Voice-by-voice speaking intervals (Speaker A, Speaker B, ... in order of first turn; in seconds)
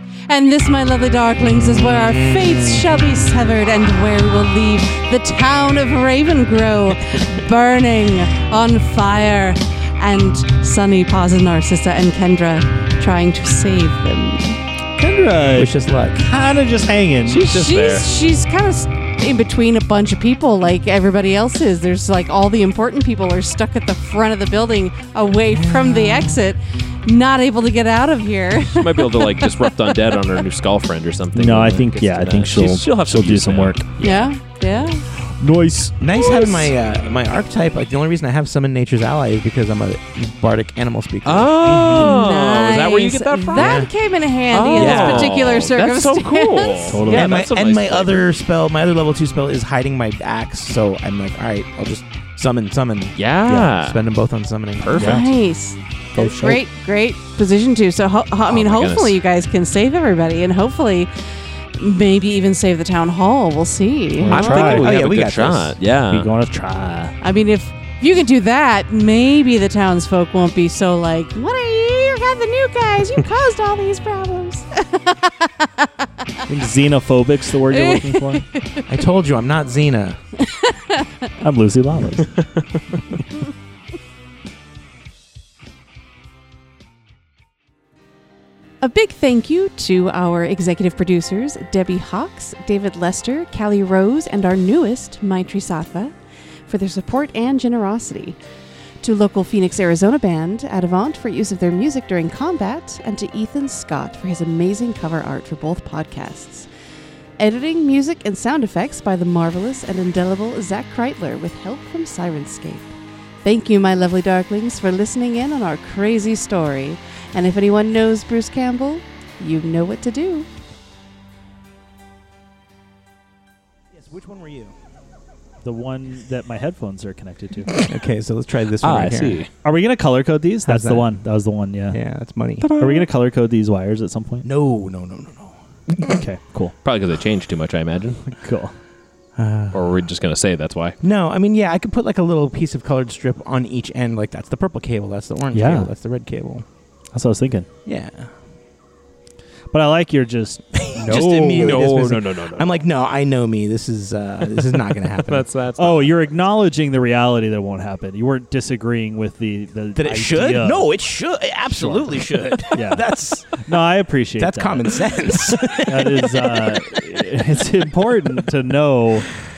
Speaker A: 0.3-14.6, 17.4-30.2, 34.0-35.0, 36.3-36.5, 41.9-47.1, 54.9-61.1, 61.8-64.7, 67.2-76.1, 77.6-78.8, 80.4-81.1, 88.8-96.1, 96.7-98.4, 99.0-106.7, 107.4-112.9, 113.4-120.5
Speaker B: 1.9-2.8, 15.5-16.2, 25.5-26.4, 36.0-42.1, 43.5-43.9, 44.7-45.5, 47.1-53.1, 53.8-55.2, 64.3-65.8, 78.9-80.2, 123.9-124.8, 127.7-129.4, 130.6-131.1, 131.9-132.7, 134.4-136.1, 139.3-140.0, 141.0-146.7, 147.8-148.3, 150.7-155.5, 159.9-163.6, 164.4-166.3
Speaker C: 15.0-17.4, 31.3-33.8, 35.4-36.0, 46.9-47.4, 53.5-53.7, 56.1-56.6, 64.2-64.8, 66.1-67.1, 76.5-78.4, 81.4-82.3, 125.6-127.7, 129.6-132.0, 132.8-134.4, 136.0-136.7, 138.3-138.7, 145.5-145.9, 147.1-147.7, 149.7-151.9, 155.8-160.9, 161.7-162.2, 162.7-165.1, 165.7-169.3
Speaker D: 17.3-18.1, 28.7-34.9, 41.2-43.9, 44.5-48.4, 53.2-54.0, 54.8-55.3, 58.5-59.2, 64.3-66.3, 82.3-82.6, 128.8-129.5, 132.6-133.0, 136.8-138.2, 139.7-140.9, 151.1-152.8, 155.1-156.2